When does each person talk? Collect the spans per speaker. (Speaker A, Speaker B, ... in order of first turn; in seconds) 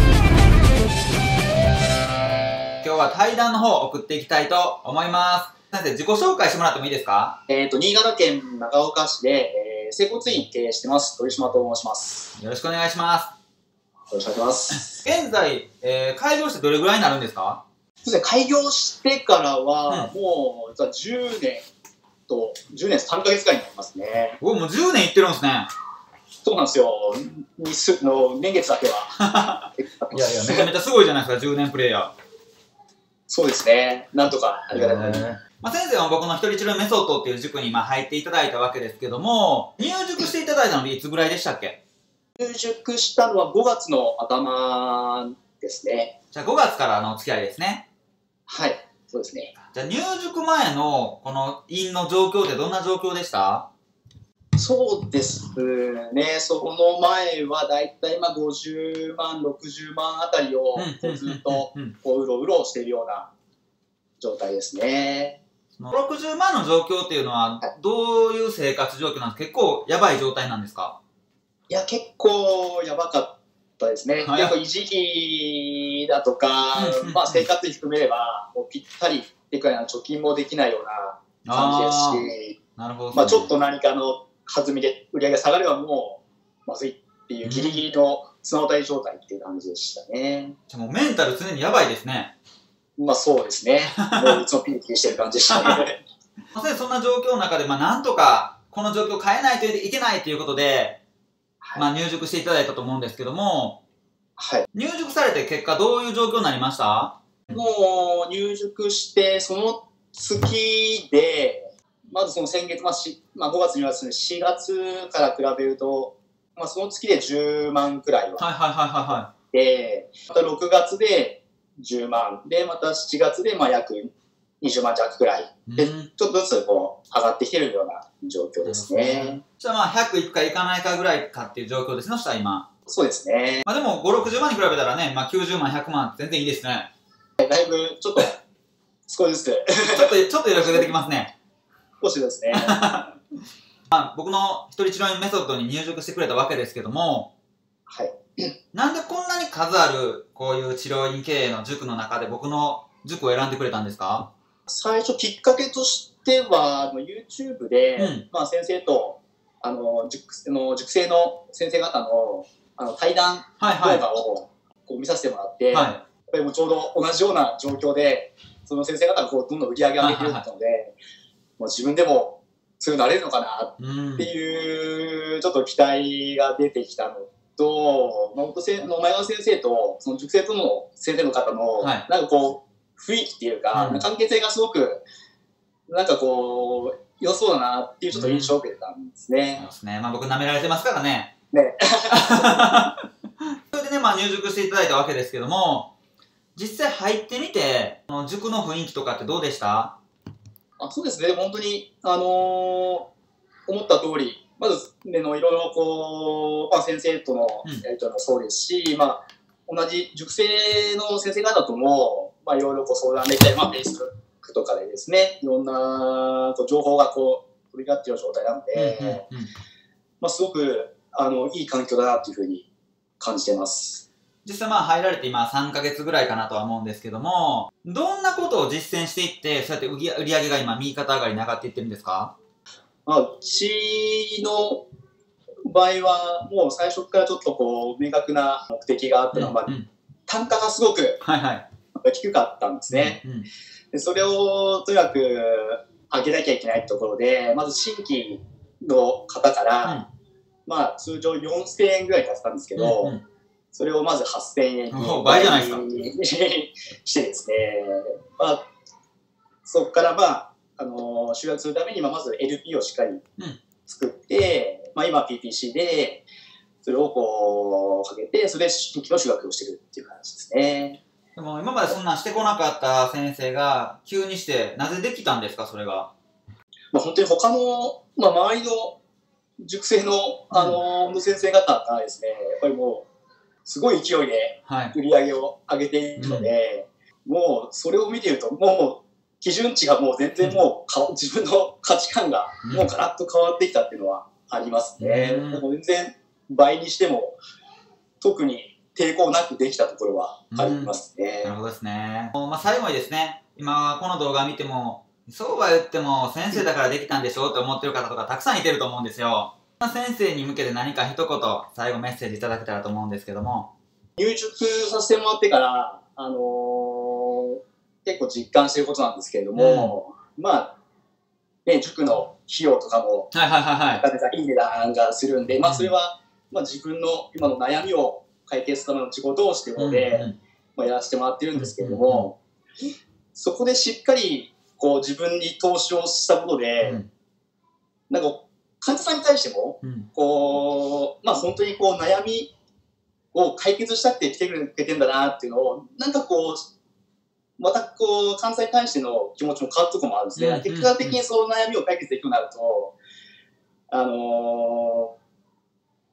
Speaker A: 2.8-7.4, 12.4-13.3, 14.7-17.6, 24.4-25.7, 29.2-32.1, 34.7-41.8, 46.3-47.9, 49.7-53.7, 60.8-61.9, 65.8-71.0, 74.2-74.5, 76.7-77.5, 81.4-82.2, 82.8-83.5, 87.4-87.8, 90.7-92.3, 94.0-94.4, 95.5-95.8, 96.5-101.0, 101.8-103.8, 104.7-107.2, 118.4-119.3, 125.7-126.1, 128.6-132.7, 133.7-136.9, 139.9-141.3, 142.5-143.1, 143.9-147.3, 148.7-154.3, 158.0-158.2, 163.6-164.0, 165.7-166.0, 170.0-170.4, 173.8-174.3, 183.7-184.0, 188.1-188.5, 189.6-191.3, 192.1-193.0, 193.7-195.9, 196.6-200.0, 218.7-219.5, 224.4-232.3, 239.3-239.9, 241.2-241.7, 242.9-243.5, 252.8-253.2, 254.9-255.8, 271.4-276.1, 280.5-280.8, 284.7-284.9, 286.2-286.5, 295.0-295.6, 300.5-313.7, 319.6-319.9, 323.3-324.0, 325.6-325.9, 329.8-330.4, 331.5-332.3, 336.8-337.1, 339.8-340.1, 350.4-351.2
Speaker B: 7.5-12.3, 14.1-14.9, 18.0-21.6, 22.3-24.4, 26.4-29.2, 29.8-30.7, 33.3-35.2, 42.4-46.1, 48.5-49.5, 54.6-63.3, 64.2-65.4, 71.7-82.6, 83.1-90.5, 93.0-96.0, 104.4-104.7, 107.5-118.5, 119.5-129.4, 132.9-133.7, 137.4-138.4, 139.1-140.9, 142.0-142.8, 147.9-148.4, 154.7-170.9, 171.6-185.0, 185.9-189.6, 191.5-192.7, 200.8-203.1, 203.7-219.2, 220.2-222.7, 223.2-224.1, 233.1-234.8, 235.7-239.7, 240.3-241.2, 242.0-243.2, 243.9-250.0, 250.7-253.2, 253.7-258.6, 259.6-263.2, 263.8-266.2, 266.8-271.0, 276.9-279.0, 279.6-283.1, 283.6-297.4, 298.2-301.5, 314.2-320.7, 321.6-323.3, 323.9-332.4, 333.3-337.0, 338.1-342.5, 343.3-346.6, 347.6-352.9, 353.9-355.1